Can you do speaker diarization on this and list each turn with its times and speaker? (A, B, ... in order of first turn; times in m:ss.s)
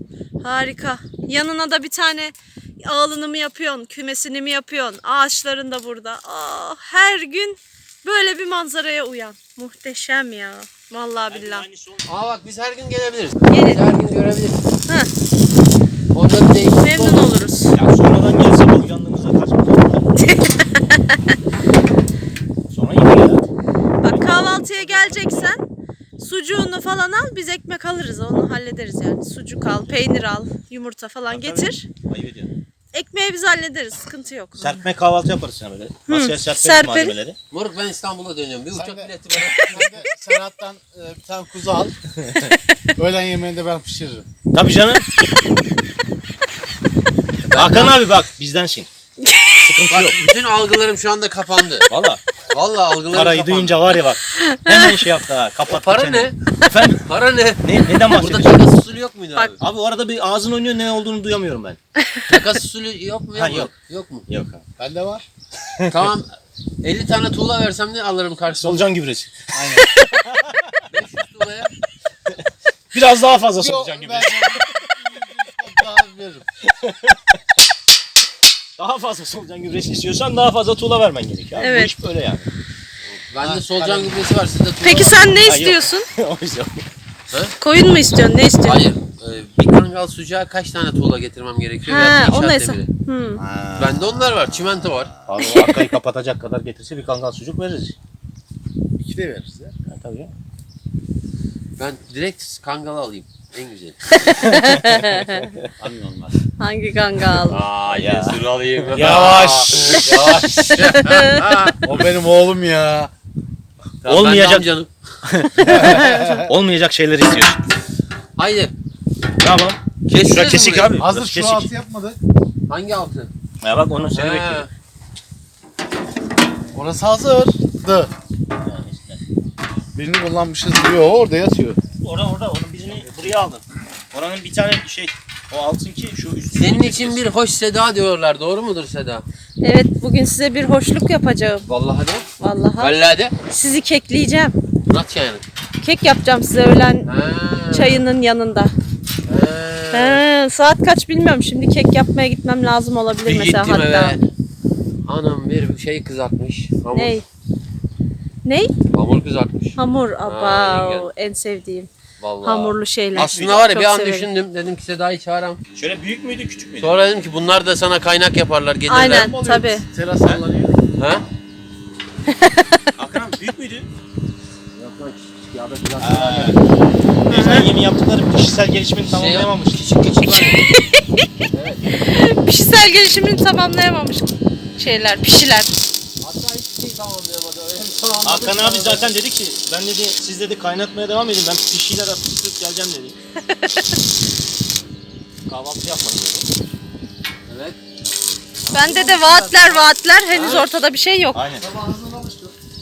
0:00.4-0:11.6 A
0:11.3-0:12.1 B
0:12.1-0:14.6 C
0:13.5-0:13.9 A
0:16.1-0:17.3 C
0:16.8-0:17.8 A
0:17.7-0:20.1 B
0:20.2-0:21.2 A
0:22.7-0:23.4 B
0:24.0-0:25.6 A
0:24.0-0:25.5 B
0:26.2-0:31.9 A
0:31.3-0:32.5 B
0:32.9-0:34.8 A
0:34.6-0:37.4 B
0:36.1-0:37.2 A
0:37.5-0:39.9 C
0:38.7-0:42.0 D
0:42.2-0:42.6 B
0:43.0-0:44.3 D
0:44.5-0:45.0 B
0:47.5-0:48.0 C
0:47.5-0:48.9 B
0:49.2-0:49.7 A
0:49.6-0:50.2 B
0:49.9-0:51.9 C
0:51.9-0:52.2 B
0:52.5-0:53.8 C
0:53.1-0:57.0 B
0:54.4-0:54.9 A
0:55.7-0:56.4 C
0:57.0-0:59.6 C
0:57.6-0:58.6 B
0:59.6-1:01.8 B
1:02.3-1:04.2 C
1:03.3-1:03.7 B
1:04.3-1:04.6 B
1:04.8-1:05.2 D
1:05.8-1:06.1 B
1:05.9-1:08.9 C
1:08.5-1:10.8 B
1:09.5-1:09.9 D
1:10.9-1:11.7 C
1:12.3-1:14.9 B
1:13.5-1:16.5 D
1:16.6-1:17.2 B
1:18.8-1:22.5 B
1:21.6-1:21.9 A
1:23.1-1:25.4 C
1:23.4-1:24.3 D
1:24.8-1:26.1 A
1:25.4-1:26.9 B
1:27.3-1:27.6 C
1:27.6-1:28.8 A
1:28.6-1:32.9 C
1:31.9-1:33.4 A
1:33.4-1:35.3 D
1:33.8-1:35.1 C
1:35.3-1:38.0 B
1:39.0-1:39.8 D
1:39.9-1:40.3 B
1:41.8-1:44.2 C
1:44.2-1:45.5 A
1:44.4-1:45.7 B
1:45.8-1:46.4 D
1:46.6-1:47.6 A
1:47.5-1:51.0 C
1:47.8-1:48.4 B
1:48.9-1:49.8 B
1:49.0-1:53.1 D
1:50.6-1:51.4 A
1:54.0-1:54.9 C
1:54.1-1:54.7 B
1:55.2-1:57.6 B
1:55.6-1:56.5 D
1:58.4-1:58.7 C
1:59.4-2:01.7 B
2:00.1-2:01.0 C
2:01.0-2:02.2 D
2:02.7-2:03.3 C
2:03.6-2:04.7 B
2:04.1-2:04.7 C
2:06.7-2:08.1 D
2:08.6-2:09.2 B
2:10.0-2:11.8 D
2:12.0-2:17.2 B
2:16.6-2:19.2 C
2:19.6-2:21.7 A
2:21.7-2:22.2 C
2:22.4-2:23.0 A
2:22.8-2:23.3 C
2:23.5-2:24.6 A
2:24.9-2:25.4 C
2:25.8-2:27.1 A
2:27.0-2:28.0 C
2:27.7-2:28.7 A
2:29.3-2:30.2 C
2:29.9-2:34.2 A
2:33.2-2:34.2 C
2:35.0-2:37.2 C
2:36.9-2:37.2 A
2:38.4-2:38.7 A
2:38.9-2:41.1 C
2:39.8-2:41.9 A
2:42.2-2:45.6 C
2:42.4-2:44.3 A
2:43.1-2:43.7 B
2:45.8-2:47.0 B
2:46.8-2:49.3 C
2:48.9-2:49.8 A
2:49.0-2:50.8 D
2:51.0-2:51.3 C
2:52.3-2:52.8 A
2:53.0-2:53.9 B
2:54.8-2:56.6 C
2:56.0-2:56.6 B
2:57.2-2:59.8 B
2:57.3-2:57.7 A
2:59.0-3:00.7 C
3:00.2-3:01.3 A
3:01.5-3:01.9 C
3:02.0-3:05.8 A
3:06.2-3:09.1 C
3:07.8-3:09.0 D
3:08.2-3:13.2 B
3:13.5-3:13.8 A
3:15.5-3:16.5 B
3:17.5-3:17.8 C
3:18.7-3:19.9 D
3:18.7-3:21.4 A
3:20.3-3:20.7 C
3:20.3-3:20.8 B
3:21.3-3:21.6 B
3:21.6-3:22.6 D